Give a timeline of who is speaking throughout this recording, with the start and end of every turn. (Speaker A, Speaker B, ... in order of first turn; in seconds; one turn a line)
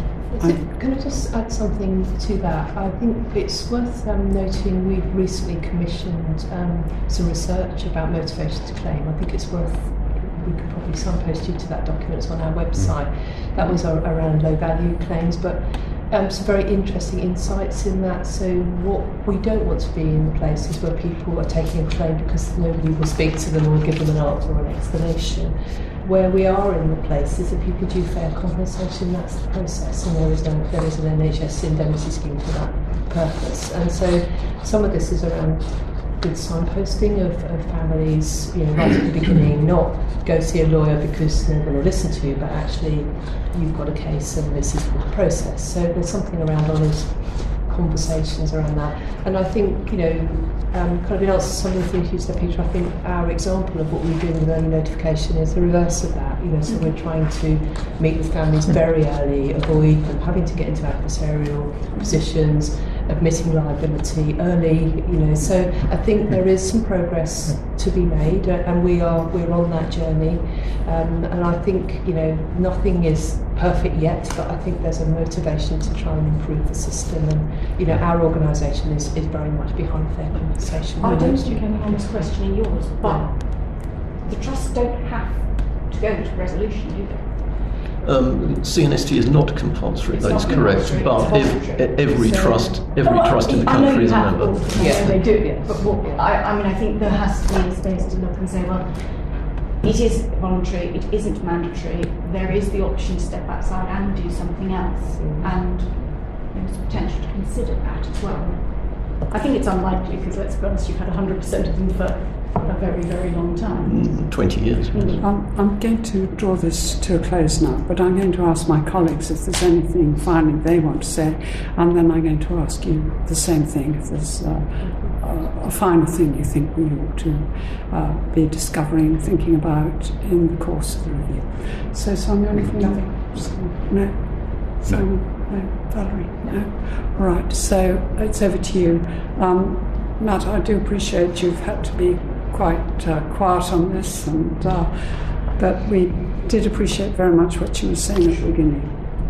Speaker A: 0.3-83.3
Speaker B: 81.0-87.8
Speaker C: 88.0-95.7
Speaker B: 90.1-115.2
Speaker A: 90.3-90.7
Speaker A: 94.8-96.3
Speaker A: 105.2-105.6
Speaker C: 113.8-115.3
Speaker D: 115.2-149.0
Speaker A: 124.8-125.2